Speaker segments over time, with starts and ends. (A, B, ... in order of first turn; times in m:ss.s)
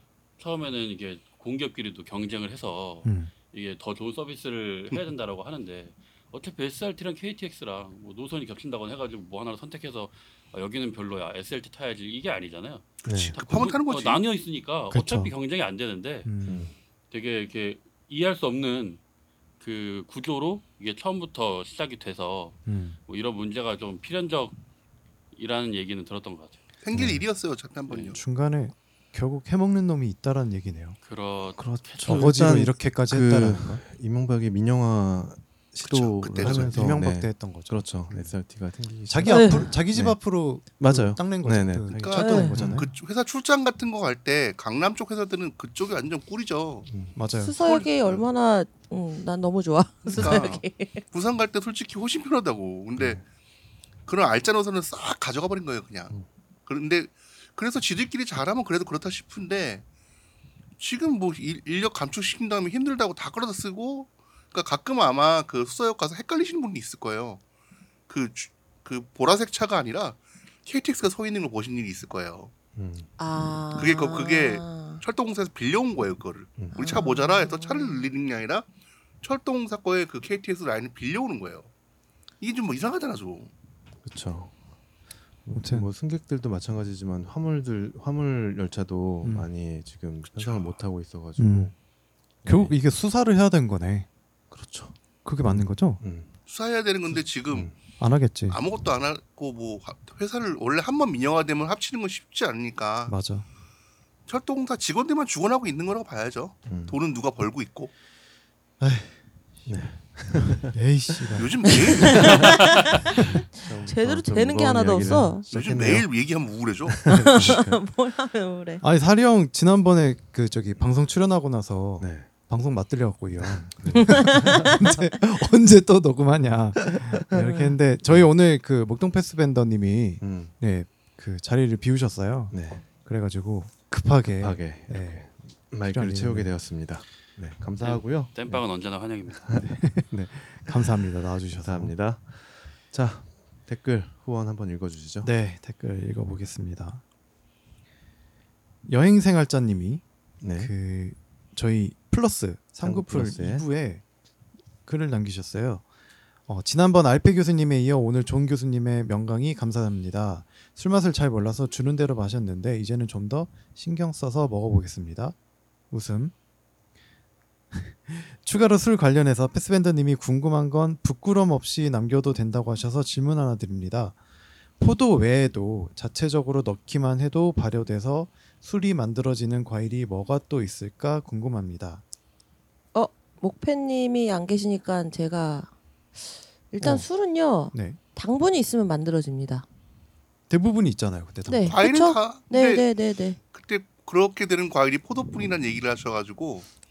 0:00.4-0:16.3 A
0:03.0-0:03.3 B
0:13.0-0:13.3 C
0:13.1-0:14.2 D
0:14.9-0:15.3 B
0:16.2-0:16.7 B
0:16.5-0:16.7 C
0:17.1-0:19.0 A
0:19.6-0:24.6 A
0:22.7-0:23.0 B
0:25.3-0:26.6 A
0:26.8-0:28.2 D
0:26.9-0:27.2 C
0:27.9-0:28.2 A
0:28.2-0:31.0 B
0:31.0-0:32.7 A
0:31.6-0:42.9 C
0:32.0-0:33.8 B
0:35.8-0:36.9 D
0:36.4-0:38.3 B
0:39.1-0:42.9 B
0:39.3-0:39.7 E
0:42.0-0:47.0 D
0:42.2-0:42.6 E
0:46.9-0:47.2 C
0:47.2-0:47.6 B
0:47.4-0:51.0 E
0:47.6-0:47.9 D
0:50.1-0:53.2 D
0:50.1-0:50.5 C
0:53.0-0:53.2 C
0:54.1-0:56.2 D
0:56.7-0:59.8 D
1:00.8-1:07.4 D
1:08.1-1:12.5 D
1:12.8-1:13.1 C
1:13.2-1:15.0 E
1:13.8-1:18.7 D
1:16.6-1:16.9 C
1:16.8-1:18.1 E
1:19.2-1:21.7 D
1:22.4-1:23.5 D
1:24.0-1:24.6 C
1:25.5-1:31.7 C
1:25.5-1:25.9 B
1:29.2-1:29.5 B
1:30.3-1:30.8 D
1:31.4-1:31.7 B
1:32.4-1:32.7 C
1:32.4-1:34.1 B
1:34.5-1:36.3 C
1:35.2-1:36.0 B
1:36.5-1:37.8 D
1:37.1-1:37.8 C
1:38.0-1:38.6 B
1:38.5-1:43.2 D
1:43.1-1:43.5 B
1:44.3-1:47.9 D
1:46.7-1:47.0 C
1:48.8-1:49.7 B
1:49.7-1:50.8 C
1:50.5-1:52.2 B
1:51.3-1:52.7 D
1:51.7-1:55.5 E
1:52.2-1:52.4 C
1:53.3-1:56.1 C
1:55.0-1:55.3 B
1:55.5-1:57.0 D
1:57.0-1:57.8 C
1:57.1-1:58.8 E
1:58.8-2:16.5 B
2:02.0-2:02.3 C
2:03.4-2:05.0 C
2:04.1-2:04.7 E
2:10.2-2:10.5 C
2:12.5-2:12.8 C
2:14.4-2:18.6 C
2:17.8-2:19.6 A
2:19.4-2:21.0 C
2:19.6-2:22.0 B
2:21.6-2:25.3 C
2:25.2-2:27.0 B
2:28.9-2:30.0 B
2:30.4-2:30.7 C
2:30.5-2:34.0 B
2:32.8-2:33.7 C
2:34.9-2:35.9 B
2:36.5-2:45.4 B
2:45.9-2:46.3 B
2:47.7-2:54.2 B
2:54.8-3:02.0 B
3:02.9-3:05.7 E
3:06.7-3:09.6 E
3:06.8-3:07.1 B
3:07.7-3:08.0 B
3:10.5-3:11.8 B
3:11.5-3:13.4 E
3:11.7-3:12.8 D
3:13.5-3:16.7 D